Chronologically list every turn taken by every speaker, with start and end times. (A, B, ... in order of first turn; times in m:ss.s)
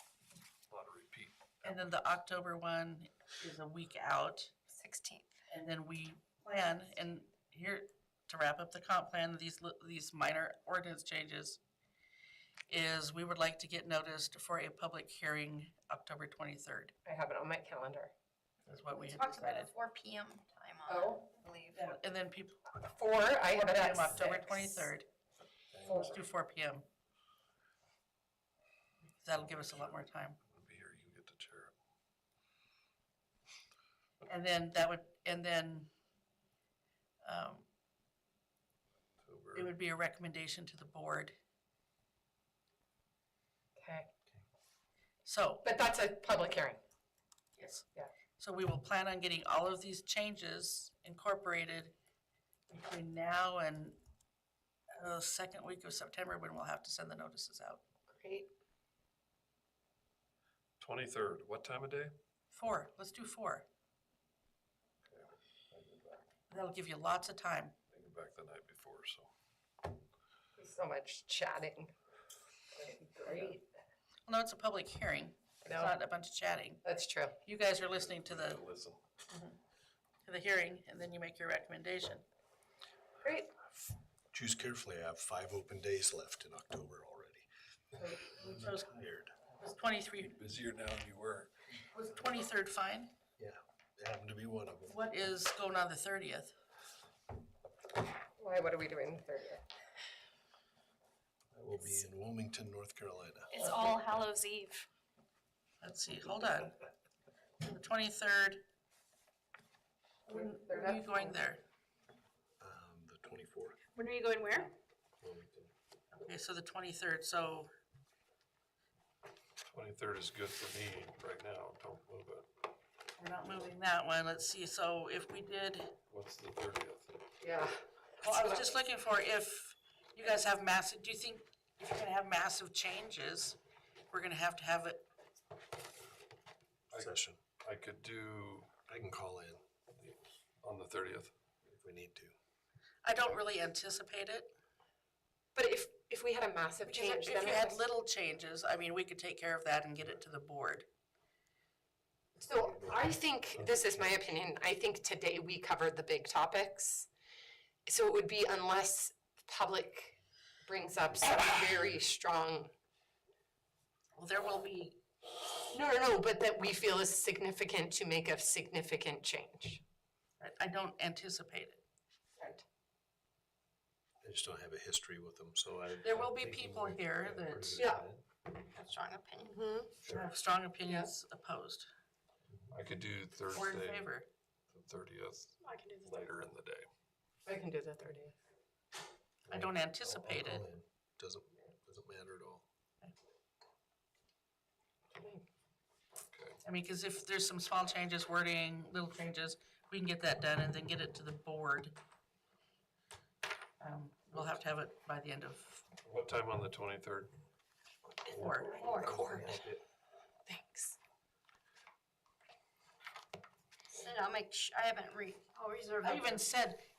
0:00.7-0:01.8 A
0:01.6-0:04.5 B
0:04.7-0:05.2 C
0:05.5-0:11.6 B
0:12.7-0:16.9 B
0:17.0-0:18.1 D
0:18.6-0:19.7 B
0:18.9-0:21.9 C
0:20.9-0:21.2 D
0:21.7-0:22.6 B
0:22.8-0:24.9 D
0:23.5-0:25.0 B
0:25.7-0:26.0 E
0:25.8-0:26.2 D
0:25.8-0:26.8 B
0:29.2-0:30.4 B
0:29.4-0:31.7 A
0:34.2-0:35.9 B
0:37.2-0:37.6 B
0:39.2-0:39.7 A
0:39.5-0:41.4 B
0:43.8-0:44.1 D
0:45.2-0:45.6 B
0:45.6-0:46.8 D
0:47.6-0:47.9 B
0:48.4-0:51.9 B
0:52.7-0:54.0 B
0:55.0-0:57.8 B
0:58.1-0:58.5 D
1:00.8-1:02.1 A
1:02.5-1:03.7 B
1:05.0-1:06.2 A
1:06.5-1:07.7 B
1:07.9-1:09.3 A
1:10.6-1:11.9 D
1:12.7-1:13.6 D
1:14.3-1:16.8 B
1:15.6-1:16.0 D
1:16.8-1:17.4 D
1:17.4-1:18.6 B
1:17.8-1:19.0 A
1:20.2-1:22.2 B
1:23.2-1:23.5 D
1:24.3-1:27.5 E
1:28.0-1:28.9 B
1:28.2-1:29.3 E
1:29.6-1:30.3 B
1:30.2-1:31.5 A
1:31.9-1:33.1 B
1:33.4-1:35.0 E
1:34.8-1:36.5 B
1:38.4-1:39.6 D
1:41.5-1:43.5 E
1:43.5-1:44.9 F
1:45.8-1:46.8 B
1:47.6-1:48.6 B
1:50.3-1:51.6 B
1:50.3-1:51.4 D
1:52.6-1:53.8 E
1:54.0-1:54.7 F
1:55.2-1:55.7 E
1:56.1-1:57.7 B
1:59.7-2:02.5 A
2:03.2-2:05.9 B
2:06.1-2:07.2 A
2:07.4-2:08.7 D
2:08.2-2:13.6 B
2:14.1-2:15.0 B
2:16.9-2:18.7 A
2:17.0-2:17.4 E
2:18.9-2:19.6 E
2:20.0-2:21.3 A
2:21.6-2:22.3 E
2:23.0-2:24.5 B
2:25.5-2:27.8 D
2:26.9-2:30.9 B
2:32.4-2:37.1 D
2:32.5-2:33.7 E
2:37.8-2:42.7 D
2:44.1-2:45.0 B
2:45.6-2:49.8 D
2:50.4-2:51.8 B
2:52.4-2:52.6 D
2:54.2-2:58.2 E
2:56.0-2:57.8 B
2:57.8-2:58.0 D
2:58.7-2:59.6 C
2:59.5-2:59.9 D
3:00.1-3:01.9 B
3:00.8-3:01.1 D
3:02.7-3:04.1 A
3:03.5-3:04.3 B
3:04.7-3:06.9 A
3:05.6-3:06.3 F
3:07.4-3:08.3 D
3:09.5-3:10.7 B
3:09.5-3:12.6 E
3:15.1-3:15.4 D
3:16.3-3:16.6 A
3:16.6-3:21.9 B
3:23.8-3:25.8 B
3:26.0-3:27.3 A
3:28.3-3:29.8 E
3:28.3-3:28.8 B
3:28.4-3:29.2 C
3:28.5-3:29.5 D
3:30.5-3:31.0 D
3:33.9-3:36.5 C
3:36.0-3:36.8 B